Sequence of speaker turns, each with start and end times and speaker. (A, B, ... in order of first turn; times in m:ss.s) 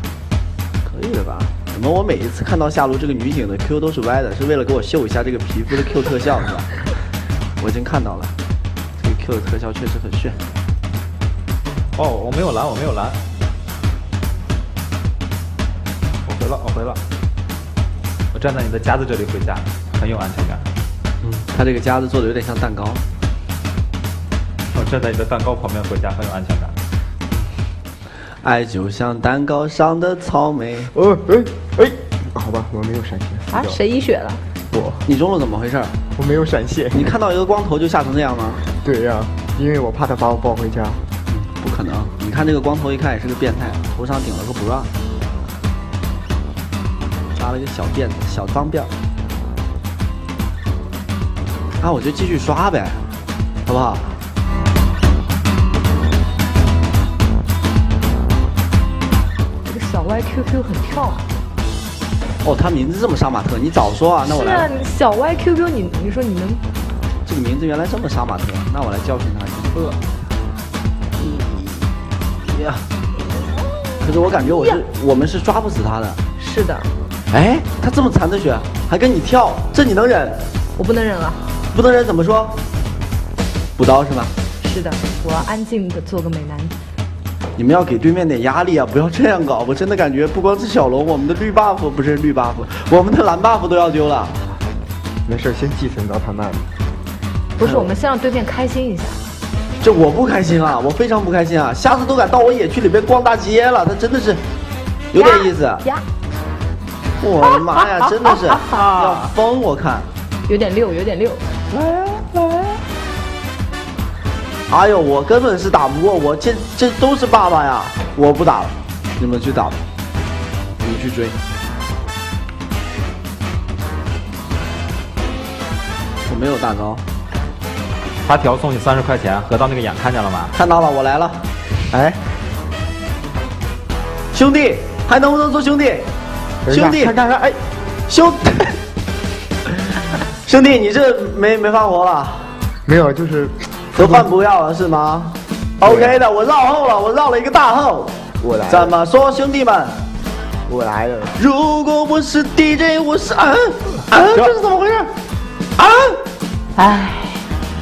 0:00.8-0:06.7 A
0:07.6-0:08.3 A
0:09.0-0:10.4 A
0:12.0-0:13.2 B
0:16.2-0:17.0 B
0:18.3-0:20.7 B
0:21.2-0:23.0 A
0:24.7-0:26.8 B
0:28.4-0:30.9 A
0:30.9-0:33.8 C
0:33.5-0:34.4 D
0:34.7-0:35.0 C
0:35.0-0:35.9 A
0:36.2-0:37.1 C
0:36.9-0:38.6 A
0:38.8-0:41.0 C
0:41.3-0:44.9 A
0:47.4-0:48.9 A
0:51.8-0:53.0 A
0:53.6-0:54.1 A
0:59.6-1:01.2 D
1:02.4-1:04.7 A
1:04.2-1:06.6 D
1:07.2-1:09.9 A
1:11.2-1:12.8 A
1:14.0-1:16.2 A
1:14.4-1:14.8 D
1:16.4-1:16.9 D
1:17.3-1:20.4 A
1:20.8-1:21.4 D
1:21.7-1:22.6 A
1:23.8-1:24.3 A
1:24.6-1:26.7 D
1:27.6-1:34.4 A
1:35.2-1:36.6 C
1:37.6-1:39.2 D
1:39.8-1:44.4 A
1:45.1-1:45.8 A
1:45.2-1:46.0 D
1:47.2-1:50.1 A
1:48.5-1:49.3 B
1:50.4-1:51.4 D
1:51.7-1:52.7 B
1:54.7-1:59.8 A
2:00.8-2:01.4 A
2:06.3-2:07.0 A
2:08.2-2:10.5 B
2:10.5-2:11.4 A
2:11.9-2:12.2 C
2:14.3-2:16.1 A
2:16.6-2:17.6 C
2:16.7-2:17.1 A
2:18.1-2:18.8 A
2:20.4-2:22.6 A
2:22.9-2:24.2 C
2:23.9-2:28.1 A
2:25.8-2:26.1 C
2:28.4-2:28.9 C
2:28.7-2:29.9 A
2:30.7-2:31.4 C
2:31.4-2:35.1 A
2:34.1-2:34.5 B
2:35.8-2:36.1 A
2:36.8-2:37.4 D